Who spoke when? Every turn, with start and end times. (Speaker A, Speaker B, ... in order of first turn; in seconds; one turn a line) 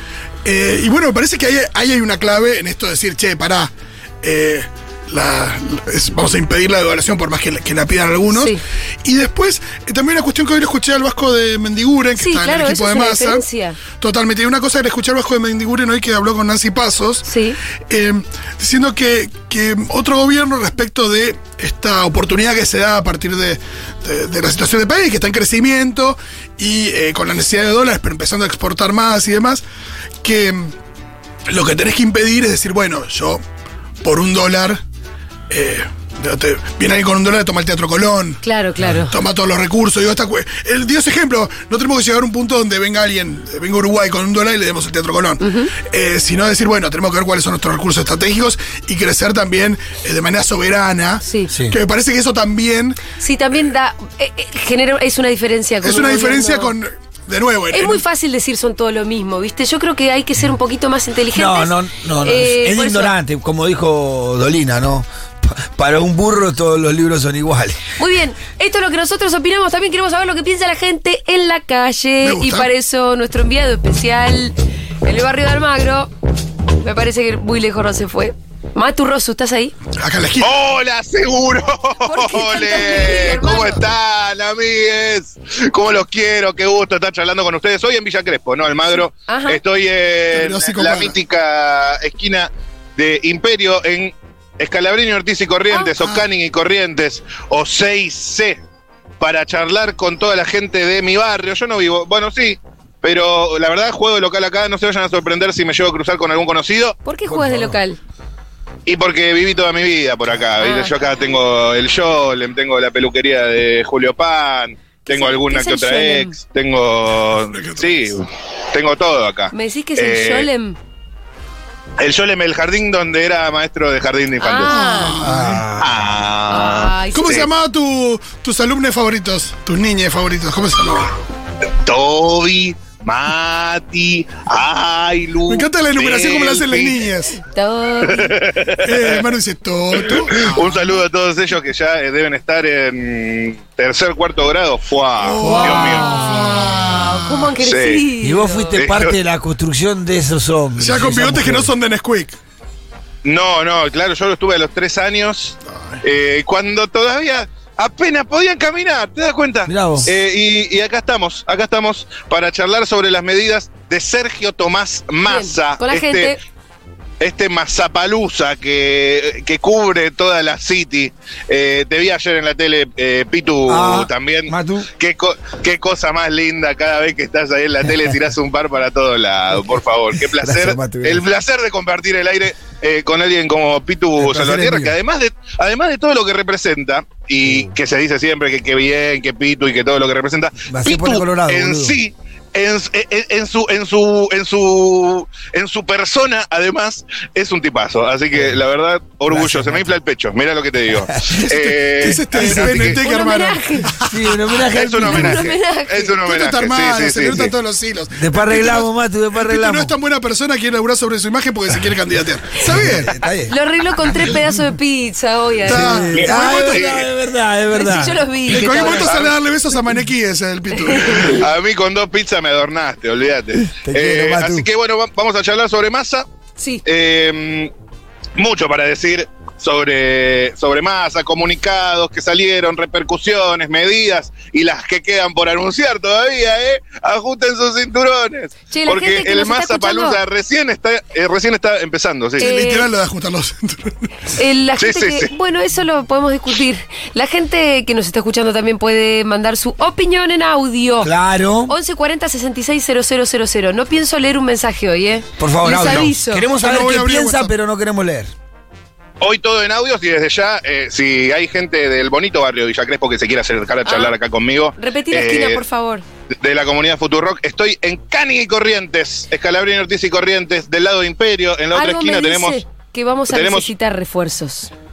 Speaker A: 0.4-13.4
Speaker B: 8.3-8.6
Speaker B: 12.2-13.8
Speaker A: 14.0-17.3
Speaker B: 17.3-17.6
Speaker A: 17.9-29.6
Speaker A: 30.2-30.7
Speaker A: 31.5-33.4
Speaker A: 34.0-34.8
Speaker A: 35.5-38.4
Speaker B: 38.4-39.2
Speaker A: 39.1-53.0
Speaker B: 45.4-45.7
Speaker B: 51.2-51.5
Speaker C: 51.5-51.8
Speaker B: 53.2-56.7
Speaker A: 55.8-58.0
Speaker B: 57.7-63.1
Speaker C: 61.3-67.8
Speaker B: 68.0-76.1
Speaker A: 72.2-72.7
Speaker B: 76.8-79.8
Speaker A: 80.0-80.5
Speaker D: 80.4-98.6
Speaker B: 82.0-83.8
Speaker B: 89.3-89.6
Speaker A: 90.3-91.2
Speaker D: 99.2-107.0
Speaker B: 107.0-108.0
Speaker C: 107.3-107.8
Speaker D: 108.9-120.5
Speaker B: 110.6-110.9
Speaker B: 115.1-116.4
Speaker A: 117.5-118.0
Speaker B: 119.5-120.8
Speaker D: 122.0-124.8
Speaker B: 124.4-125.2
Speaker A: 124.7-125.7
Speaker C: 125.2-126.1
Speaker D: 125.8-127.5
Speaker B: 126.5-127.4
Speaker A: 127.1-131.1
Speaker D: 131.8-137.1
Speaker A: 135.5-137.4
Speaker B: 137.5-138.4
Speaker D: 138.1-139.2
Speaker A: 138.8-140.8
Speaker D: 140.1-146.1
Speaker A: 145.2-147.5
Speaker B: 145.4-148.8
Speaker D: 147.6-148.1
Speaker C: 148.2-151.7
Speaker D: 148.8-149.1
Speaker A: 150.8-152.4
Speaker D: 153.2-166.4
Speaker C: 159.7-160.1
Speaker B: 165.2-166.4
Speaker D: 167.2-203.0
Speaker C: 173.7-174.9
Speaker C: 180.2-181.3
Speaker C: 184.2-184.9
Speaker C: 187.4-187.7
Speaker C: 190.7-192.0
Speaker C: 199.3-199.9
Speaker A: 201.4-204.1
Speaker C: 202.3-203.0
Speaker B: 203.0-204.0
Speaker C: 204.0-205.4
Speaker D: 204.7-207.6
Speaker B: 205.1-206.2
Speaker A: 206.2-213.1
Speaker C: 208.1-209.9
Speaker C: 212.6-213.5
Speaker B: 213.5-216.3
Speaker A: 215.6-216.9
Speaker C: 215.7-218.7
Speaker D: 216.2-217.0
Speaker B: 217.7-219.1
Speaker A: 218.5-221.4
Speaker B: 220.8-221.3
Speaker D: 221.3-226.2
Speaker C: 223.7-224.7
Speaker B: 226.6-226.8
Speaker D: 226.8-227.7
Speaker D: 228.4-242.5
Speaker B: 238.7-240.2
Speaker B: 242.4-242.9
Speaker A: 242.4-244.0
Speaker B: 244.3-251.1
Speaker D: 244.8-245.3
Speaker C: 251.0-251.8
Speaker B: 251.7-256.5
Speaker C: 255.4-258.3
Speaker A: 256.6-257.5
Speaker D: 259.2-265.6
Speaker B: 263.9-264.1
Speaker B: 264.8-266.0
Speaker D: 266.4-272.6
Speaker B: 271.7-274.7
Speaker D: 273.3-273.7